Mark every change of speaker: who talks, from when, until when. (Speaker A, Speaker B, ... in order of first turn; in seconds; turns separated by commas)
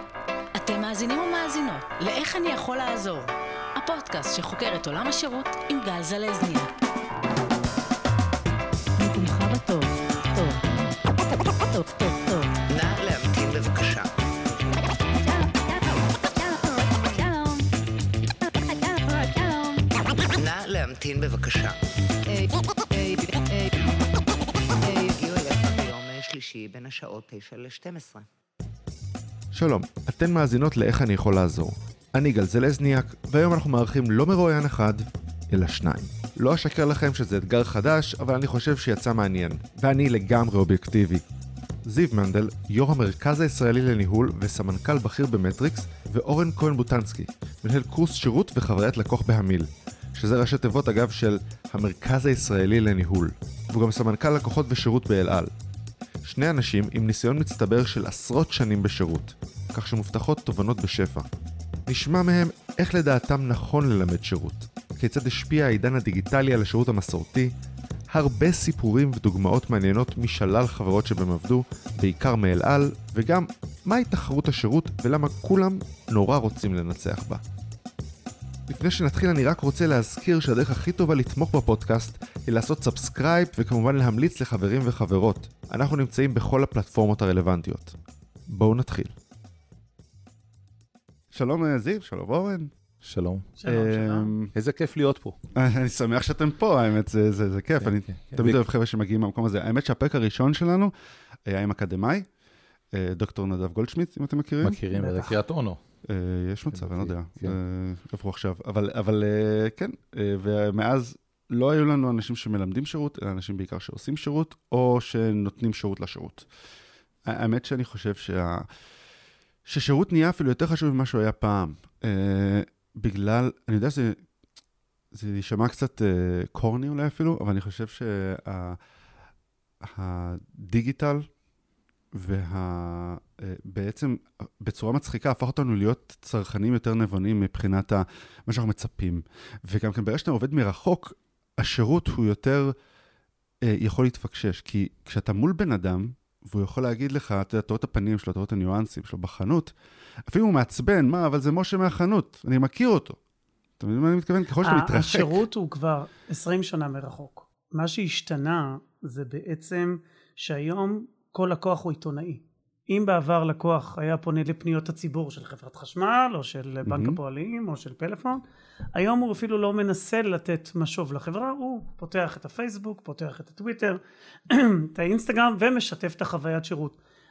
Speaker A: 0.5-6.7, Speaker A: 9.0-10.6, Speaker A: 11.5-12.6, Speaker B: 12.7-14.3, Speaker A: 15.2-17.7, Speaker A: 18.5-19.9, Speaker B: 20.2-21.8, Speaker A: 22.3-23.7, Speaker B: 24.8-28.3, Speaker C: 29.5-41.2, Speaker C: 41.8-55.5, Speaker C: 56.2-61.3, Speaker C: 61.9-67.5, Speaker C: 68.1-77.4, Speaker C: 78.7-88.0, Speaker C: 88.5-89.1, Speaker C: 91.3-92.7, Speaker D: 93.0-93.5, Speaker E: 93.6-94.3, Speaker C: 93.7-94.5, Speaker D: 94.5-95.4, Speaker C: 95.5-100.9, Speaker D: 97.8-98.6, Speaker C: 101.5-102.3, Speaker C: 102.9-104.8, Speaker D: 104.6-105.8, Speaker E: 104.9-105.3, Speaker C: 106.1-116.5, Speaker D: 106.7-107.5, Speaker C: 117.2-118.7, Speaker C: 119.6-124.2, Speaker C: 125.1-128.8, Speaker C: 129.8-131.2, Speaker C: 132.1-142.8, Speaker C: 143.6-149.7, Speaker C: 150.3-153.2, Speaker C: 153.8-155.4, Speaker E: 154.6-168.4, Speaker C: 166.8-167.2, Speaker E: 168.9-177.0